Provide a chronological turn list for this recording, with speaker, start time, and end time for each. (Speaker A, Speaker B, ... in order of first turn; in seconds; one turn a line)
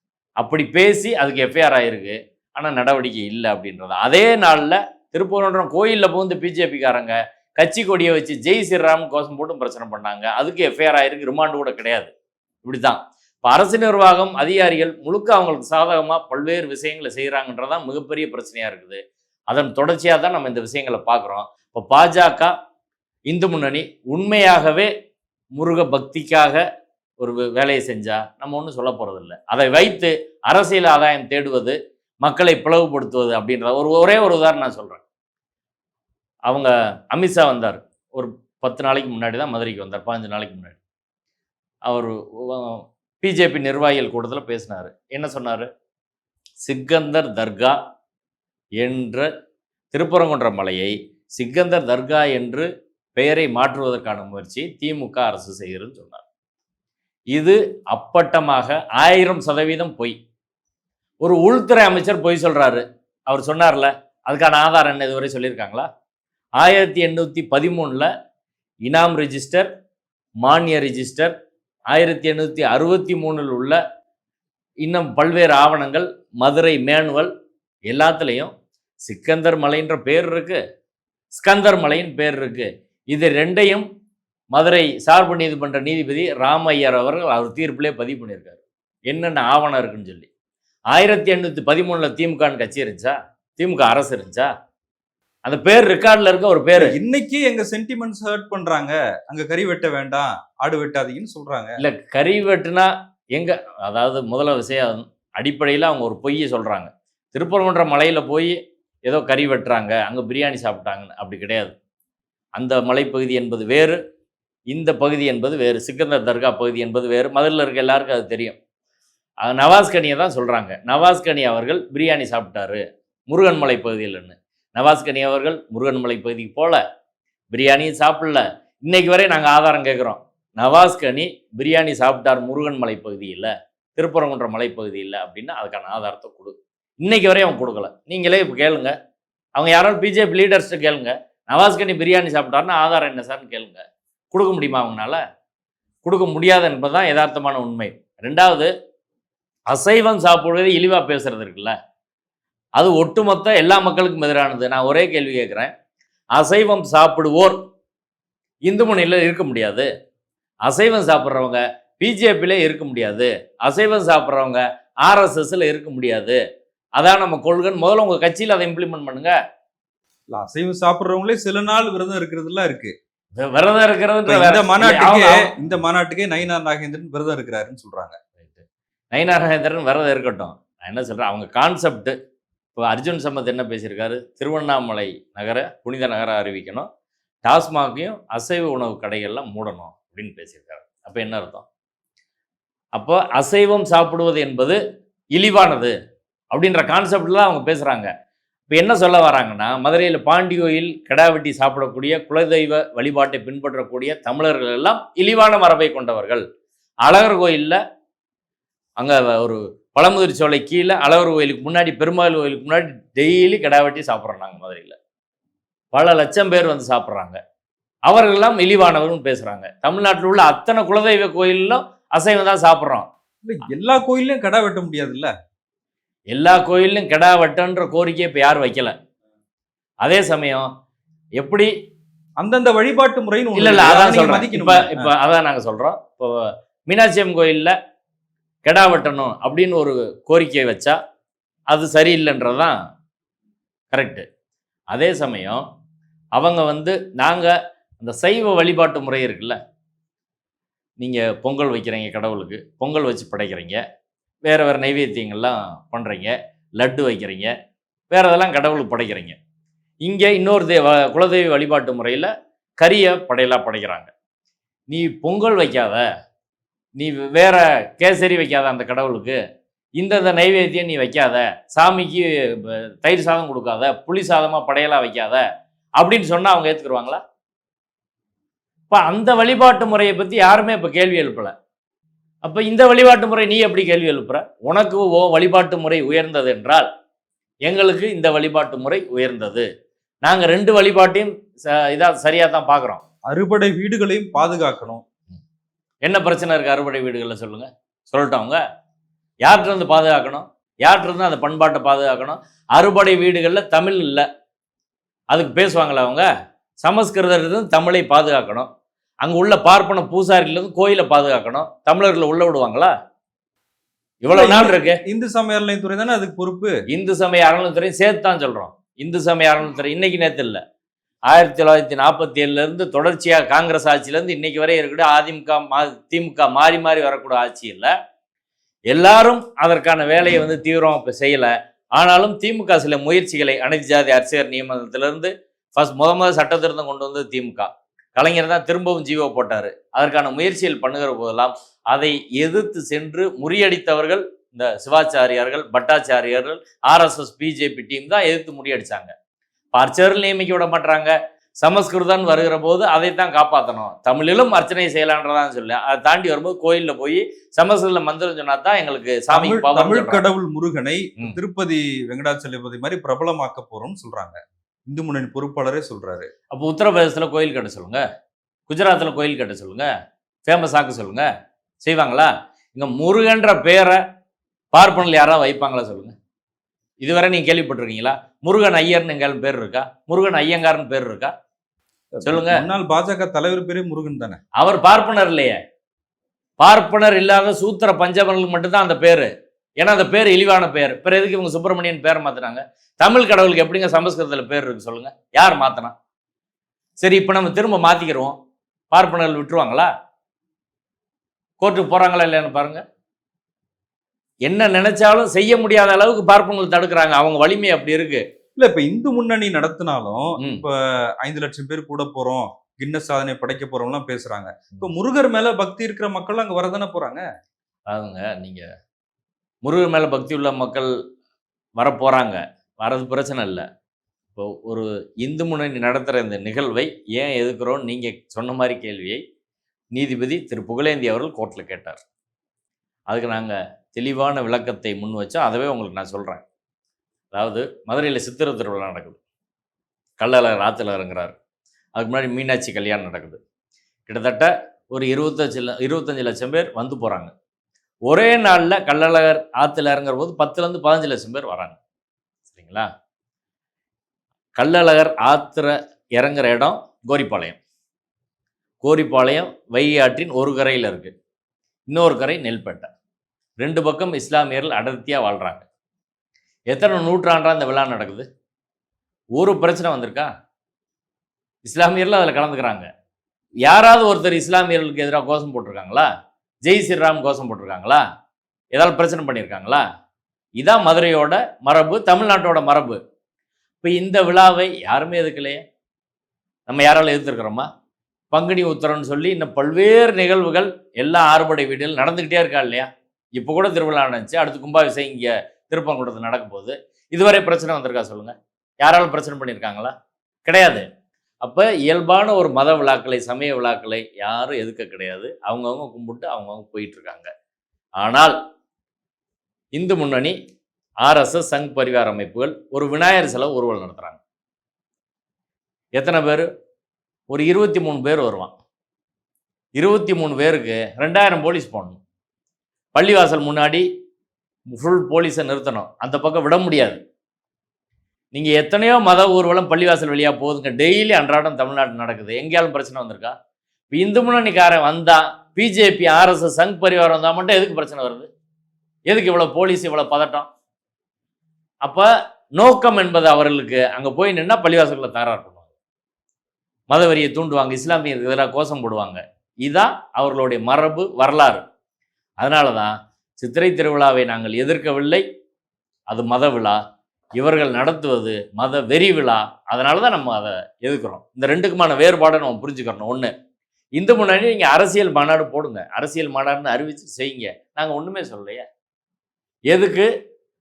Speaker A: 0.4-12.1
Speaker A: 12.7-22.5
Speaker A: 23.3-24.9
Speaker A: 25.6-26.6
Speaker A: 27.2-35.0
Speaker A: 36.5-40.8
Speaker A: 41.9-45.7
Speaker A: 46.6-47.8
Speaker A: 48.8-49.3
Speaker A: 49.9-56.2
Speaker A: 57.3-60.2
Speaker A: 61.2-65.9
Speaker A: 66.6-68.1
Speaker A: 68.9-69.7
Speaker A: 70.4-71.3
Speaker A: 71.9-73.8
Speaker A: 74.8-77.3
Speaker A: 77.9-78.5
Speaker A: 79.1-80.6
Speaker A: 81.3-83.8
Speaker A: 84.5-90.3
Speaker A: 90.9-94.5
Speaker A: 95.5-97.0
Speaker B: 96.8-101.8
Speaker A: 101.8-111.7
Speaker A: 112.6-114.0
Speaker A: 114.7-118.5
Speaker A: 119.4-126.8
Speaker A: 127.5-138.9
Speaker A: 139.6-145.2
Speaker A: 146.0-148.7
Speaker A: 149.7-151.8
Speaker A: 152.8-155.7
Speaker A: 156.4-157.6
Speaker A: 158.7-159.9
Speaker A: 160.7-166.4
Speaker A: 167.0-169.3
Speaker B: 170.3-172.9
Speaker A: 173.4-175.5
Speaker B: 174.3-178.2
Speaker A: 178.4-182.2
Speaker A: 182.8-186.9
Speaker A: 187.4-191.7
Speaker A: 193.0-194.8
Speaker A: 195.3-195.9
Speaker A: 196.5-198.1
Speaker A: 198.7-206.4
Speaker A: 207.1-207.8
Speaker A: 209.0-215.0
Speaker A: 215.9-217.4
Speaker A: 218.1-223.1
Speaker B: 223.4-225.3
Speaker A: 226.3-228.9
Speaker A: 230.0-230.7
Speaker A: 231.4-231.7
Speaker B: 232.4-235.1
Speaker A: 233.6-237.8
Speaker A: 238.7-241.0
Speaker A: 241.7-242.8
Speaker A: 243.9-244.2
Speaker A: 244.9-245.6
Speaker A: 246.4-249.6
Speaker A: 251.0-253.8
Speaker A: 254.5-257.5
Speaker A: 258.1-259.4
Speaker A: 260.0-264.1
Speaker A: 264.9-266.1
Speaker A: 267.0-269.4
Speaker A: 270.0-275.4
Speaker A: 276.0-277.2
Speaker A: 278.9-281.5
Speaker A: 282.4-286.9
Speaker A: 287.7-289.7
Speaker A: 290.2-293.0
Speaker B: 293.3-295.0
Speaker A: 296.0-298.6
Speaker A: 299.4-304.3
Speaker A: 305.3-306.3
Speaker A: 306.8-308.7
Speaker A: 309.2-312.9
Speaker A: 314.2-315.0
Speaker B: 314.3-316.8
Speaker A: 316.9-320.6
Speaker A: 321.3-327.9
Speaker A: 328.9-349.1
Speaker A: 349.7-360.2
Speaker B: 359.3-366.3
Speaker A: 366.5-368.0
Speaker A: 368.7-369.9
Speaker A: 370.5-371.3
Speaker A: 371.8-374.0
Speaker A: 374.7-376.1
Speaker A: 377.0-381.3
Speaker B: 382.2-384.4
Speaker A: 382.2-382.6
Speaker A: 384.6-385.6
Speaker A: 386.6-389.3
Speaker A: 389.8-395.9
Speaker A: 397.0-398.4
Speaker A: 398.9-399.9
Speaker A: 401.6-402.8
Speaker A: 404.5-408.2
Speaker B: 408.6-417.2
Speaker A: 417.9-418.7
Speaker A: 419.6-420.9
Speaker A: 421.8-423.7
Speaker A: 424.4-429.2
Speaker A: 429.9-432.0
Speaker A: 433.1-436.4
Speaker A: 437.3-439.2
Speaker A: 440.2-441.3
Speaker A: 442.0-443.4
Speaker A: 444.1-447.3
Speaker A: 448.1-451.8
Speaker A: 452.5-452.9
Speaker A: 454.6-457.6
Speaker A: 458.8-461.1
Speaker A: 461.9-462.9
Speaker A: 463.6-465.6
Speaker A: 466.7-468.3
Speaker A: 469.4-470.3
Speaker A: 471.6-472.9
Speaker A: 473.6-476.1
Speaker A: 476.6-478.0
Speaker A: 478.7-479.8
Speaker A: 480.6-483.0
Speaker A: 483.8-485.6
Speaker A: 486.7-487.7
Speaker A: 488.3-499.9
Speaker A: 500.5-500.9
Speaker A: 501.4-507.3
Speaker A: 508.0-508.4
Speaker A: 509.8-510.4
Speaker A: 511.0-514.2
Speaker A: 516.0-516.5
Speaker A: 517.3-518.5
Speaker A: 519.8-522.0
Speaker A: 523.0-523.9
Speaker A: 524.7-527.0
Speaker A: 528.3-533.4
Speaker A: 533.9-538.3
Speaker A: 539.1-540.5
Speaker A: 541.8-545.6
Speaker A: 546.9-551.6
Speaker A: 552.4-555.2
Speaker A: 556.1-556.8
Speaker A: 557.4-563.3
Speaker A: 564.0-568.7
Speaker A: 569.7-570.1